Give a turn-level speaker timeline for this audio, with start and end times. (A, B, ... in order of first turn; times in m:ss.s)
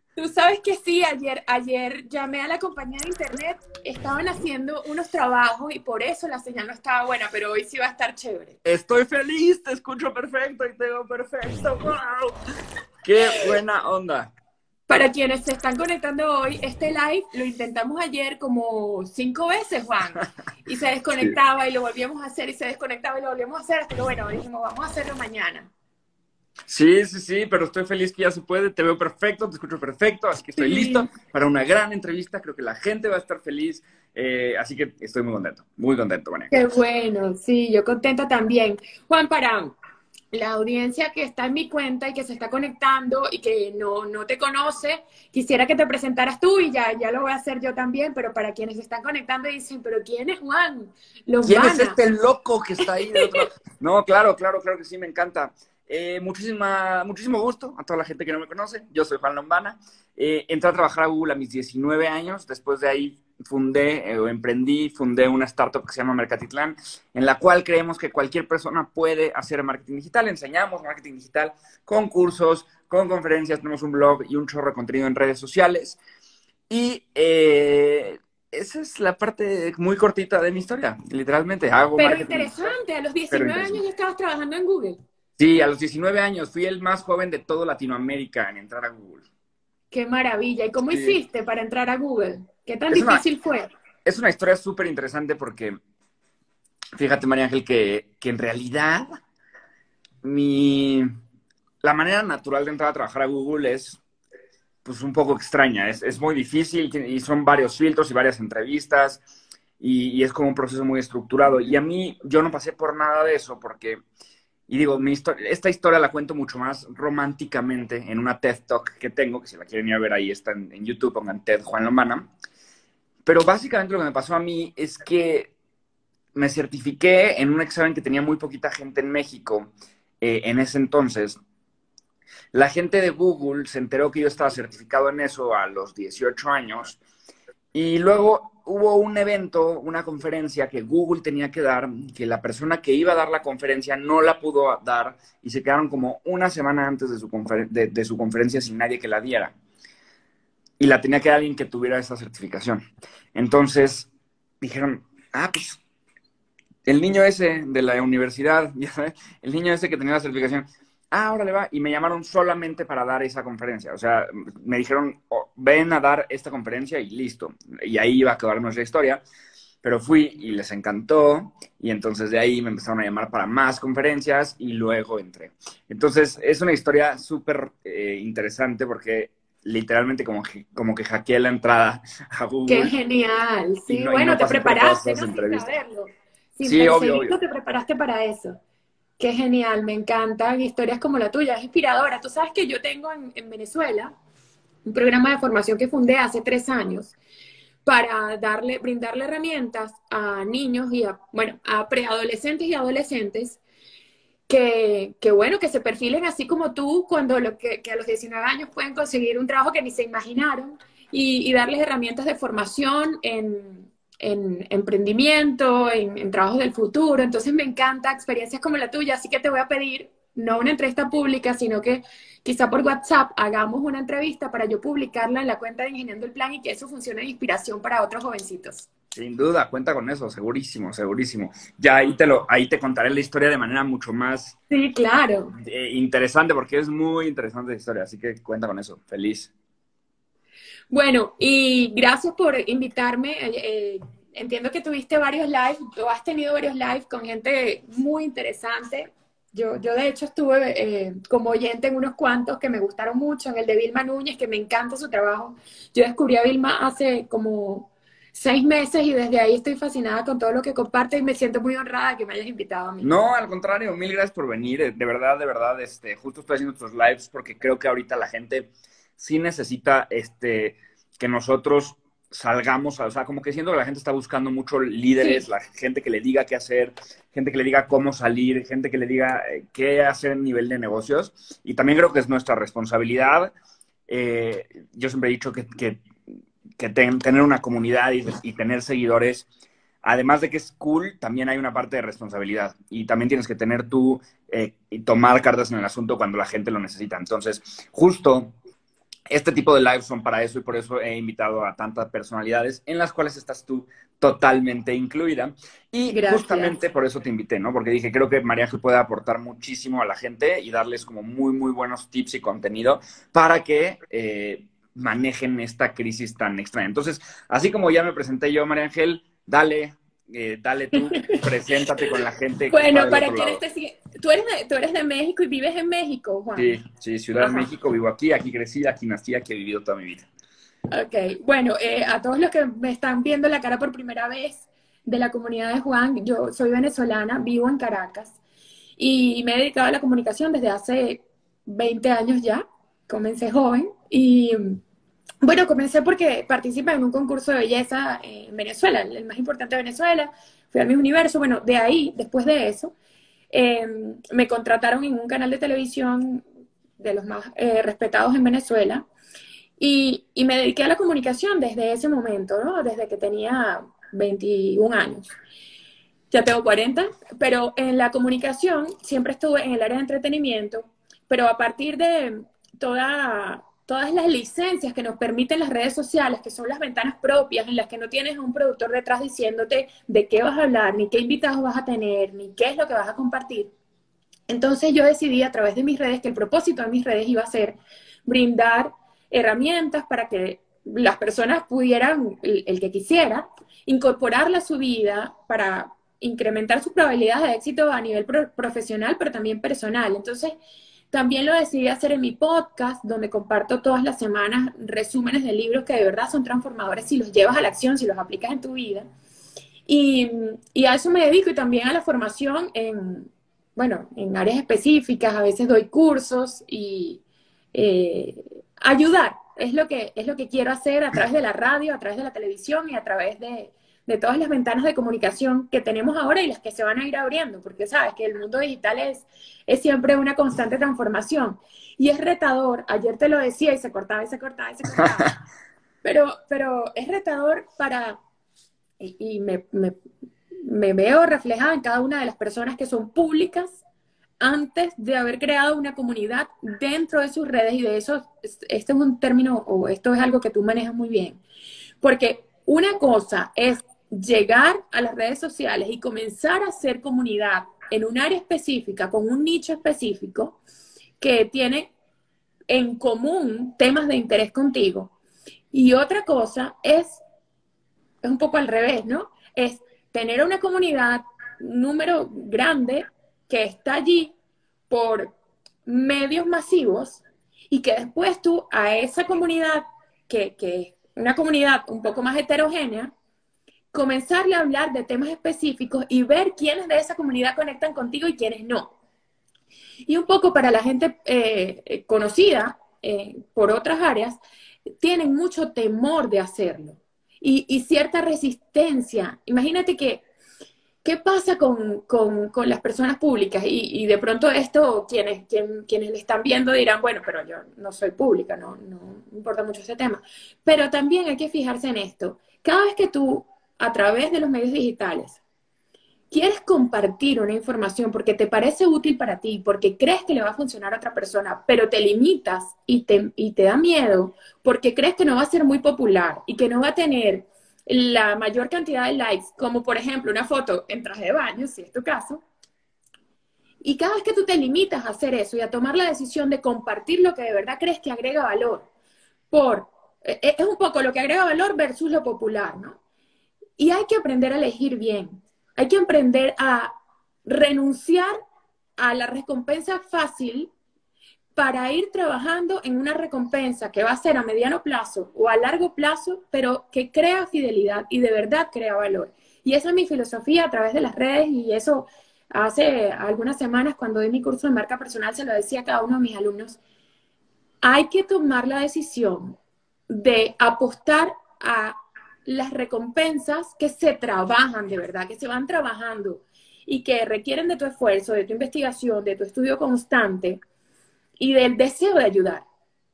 0:00.2-0:08.6 A
0:08.6-0:12.4 B
0:13.0-0:14.3 B
0:14.9-0:25.7 A
0:26.7-0:36.5 B
0:30.6-0:31.1 A
0:36.5-0:39.8 A
0:40.3-0:52.0 A
0:51.4-1:16.0 B
0:53.0-0:53.5 A
1:16.7-1:22.7 B
1:22.0-1:25.0 A
1:23.3-1:23.8 B
1:25.4-1:29.2 B
1:29.9-1:33.7 A
1:30.9-1:31.2 B
1:32.9-1:33.2 B
1:34.0-1:35.8 B
1:37.0-1:39.2 B
1:40.2-1:41.1 B
1:41.8-1:44.0 B
1:44.8-1:49.2 B
1:49.8-1:54.0 B
1:54.7-2:02.3 B
2:03.2-2:05.5 B
2:06.4-2:11.4 B
2:12.5-2:17.0 B
2:17.7-2:29.6 B
2:30.8-2:34.1 B
2:34.6-2:35.8 B
2:36.9-2:49.2 B
2:49.8-3:02.9 B
3:02.7-3:08.6 A
3:03.9-3:05.7 B
3:06.6-3:07.3 B
3:09.2-3:14.1 A
3:14.8-3:17.2 A
3:17.8-3:23.6 A
3:24.5-3:48.9 A
3:49.1-3:54.6 B
3:54.7-3:55.6 A
3:55.6-3:59.5 B
4:00.9-4:23.1 A
4:23.0-4:43.5 B
4:35.2-4:35.4 A
4:44.1-4:46.0 B
4:46.8-4:49.5 B
4:50.0-4:58.5 B
4:59.3-5:23.6 B
5:06.1-5:06.8 A
5:21.0-5:21.4 A
5:22.7-5:26.8 A
5:26.6-5:30.3 B
5:27.4-5:27.7 A
5:30.9-5:38.4 A
5:39.0-5:44.8 A
5:45.4-5:52.9 A
5:53.5-5:56.4 A
5:57.0-5:59.1 A
5:59.8-6:05.3 A
6:06.3-6:23.7 A
6:24.5-6:40.6 A
6:41.1-6:49.1 A
6:49.9-6:57.2 A
6:57.7-7:15.4 A
7:16.0-7:18.2 A
7:19.0-7:20.0 A
7:20.6-7:23.8 A
7:24.4-7:31.4 A
7:32.0-7:40.6 A
7:41.2-7:41.9 A
7:42.7-7:45.1 A
7:45.7-7:47.2 A
7:48.2-7:54.3 A
7:54.9-7:55.3 A
7:55.9-8:03.1 A
8:03.9-8:08.9 A
8:10.1-8:14.4 A
8:15.0-8:20.2 A
8:21.0-8:35.4 A
8:36.3-8:52.4 A
8:53.8-8:58.9 A
8:59.5-9:03.0 A
9:03.8-9:06.9 A
9:07.4-9:08.4 A
9:09.0-9:10.7 A
9:11.6-9:26.8 A
9:27.8-9:29.6 A
9:30.1-9:40.6 A
9:41.4-9:42.6 A